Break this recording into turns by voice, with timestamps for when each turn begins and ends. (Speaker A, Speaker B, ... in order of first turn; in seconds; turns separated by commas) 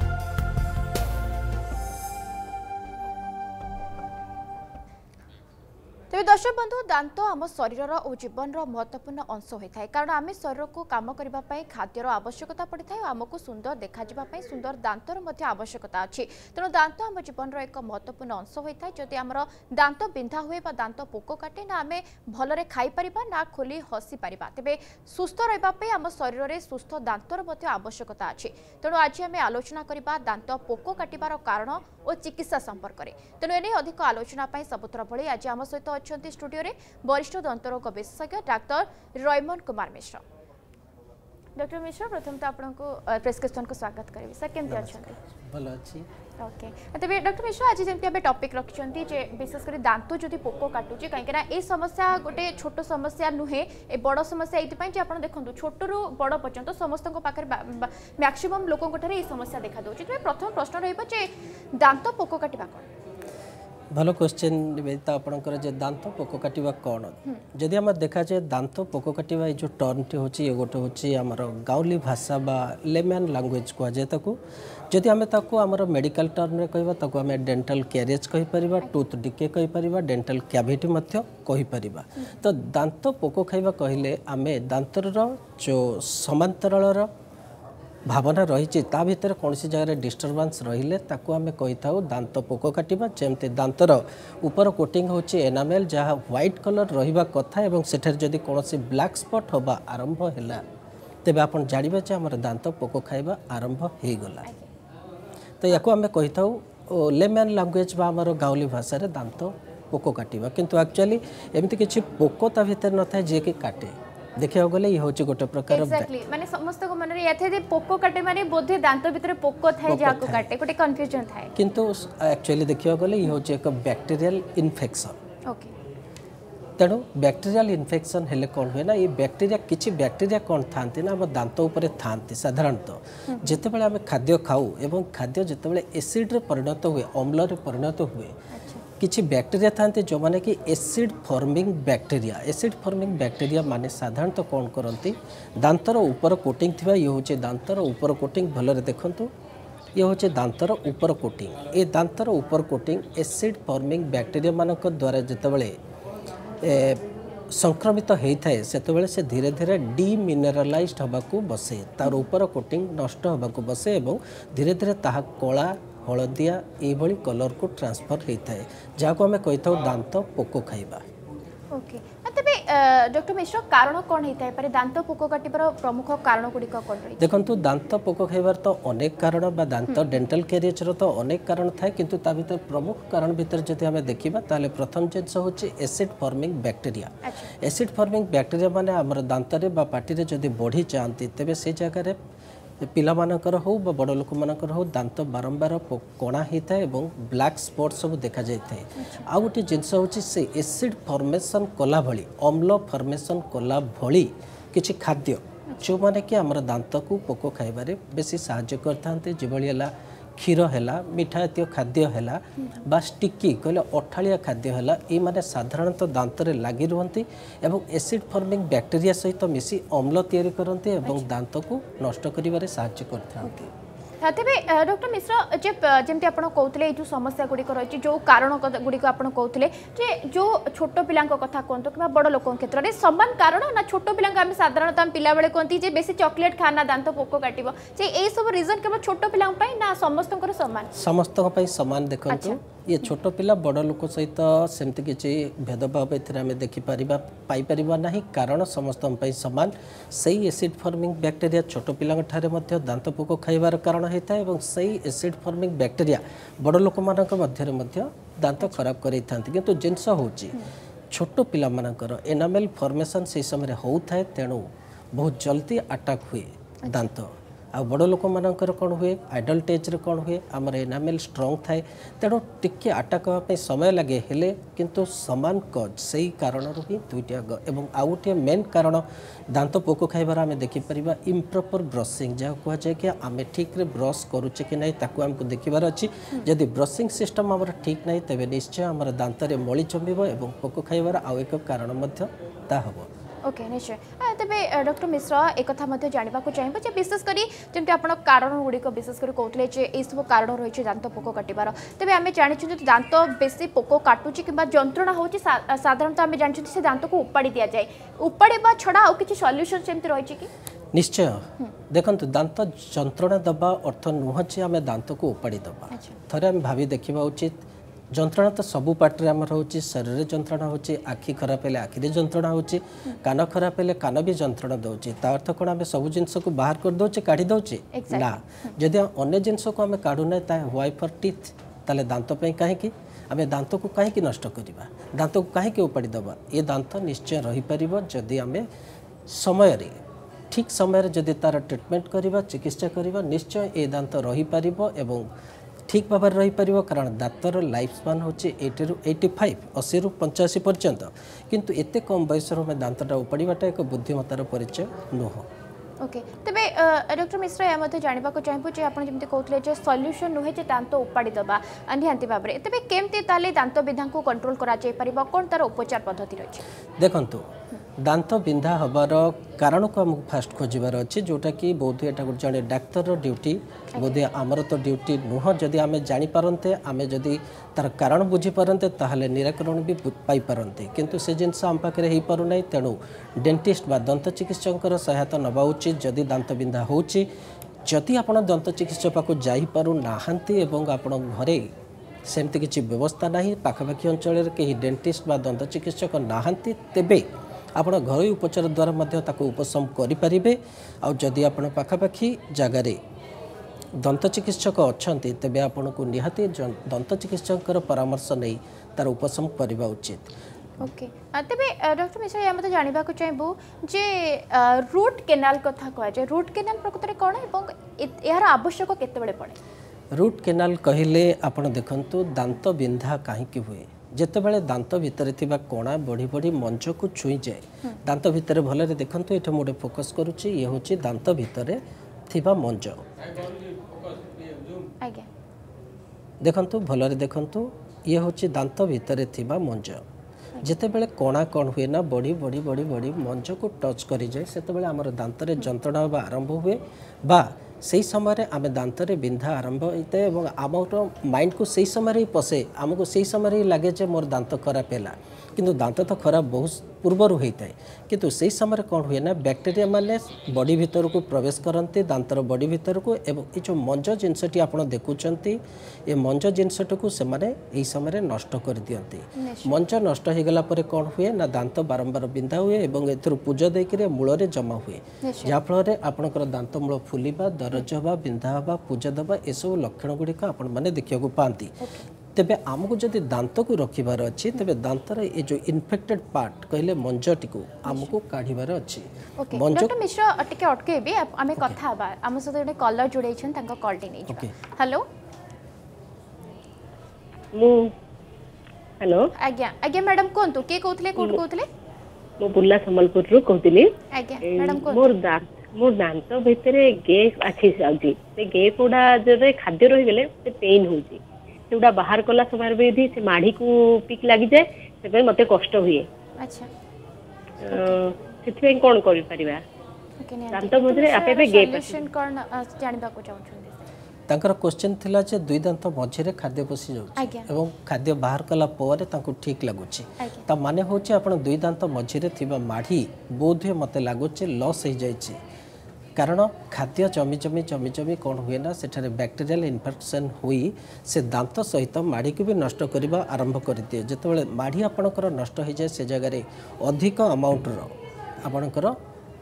Speaker A: 6.1-40.2, Speaker A: 41.6-45.2, Speaker B: 44.7-46.1, Speaker A: 46.4-62.9, Speaker B: 63.9-74.4, Speaker B: 74.9-87.1, Speaker B: 88.1-100.7, Speaker B: 101.2-104.5, Speaker B: 105.6-116.1, Speaker A: 115.7-121.5, Speaker B: 119.9-120.5, Speaker B: 121.6-125.2, Speaker A: 125.5-125.7, Speaker B: 126.8-138.4, Speaker A: 133.3-133.6, Speaker A: 138.5-138.8, Speaker B: 139.0-149.3, Speaker B: 149.9-155.8, Speaker B: 156.6-171.1, Speaker A: 171.7-177.3, Speaker B: 177.2-192.2, Speaker A: 179.9-180.2, Speaker A: 187.2-187.5, Speaker B: 192.8-223.7, Speaker A: 199.0-199.3, Speaker A: 221.1-221.3, Speaker A: 224.2-240.9, Speaker B: 240.9-293.1, Speaker A: 242.3-242.6, Speaker A: 293.4-310.5, Speaker B: 310.9-338.7, Speaker A: 327.9-328.8, Speaker B: 339.3-345.3, Speaker B: 345.9-355.5, Speaker A: 356.0-366.6, Speaker B: 367.0-387.3, Speaker B: 387.9-391.7, Speaker B: 392.3-403.0, Speaker B: 404.0-410.3, Speaker A: 410.8-419.6, Speaker B: 420.1-433.5, Speaker A: 435.0-435.3, Speaker B: 436.4-440.0, Speaker B: 440.6-481.8, Speaker A: 469.4-469.8, Speaker A: 475.2-475.6, Speaker A: 481.8-482.1, Speaker B: 482.4-489.9, Speaker A: 487.9-488.1, Speaker A: 489.4-495.1, Speaker B: 494.3-494.5, Speaker C: 497.6-497.9, Speaker C: 499.0-499.3, Speaker A: 499.4-501.7, Speaker C: 502.4-516.1, Speaker A: 504.1-505.1, Speaker A: 516.4-516.7, Speaker C: 517.6-519.6, Speaker A: 517.7-518.0, Speaker A: 520.2-523.8, Speaker C: 520.5-522.1, Speaker B: 524.3-535.4, Speaker A: 527.2-527.5, Speaker A: 530.2-530.5, Speaker B: 536.2-549.0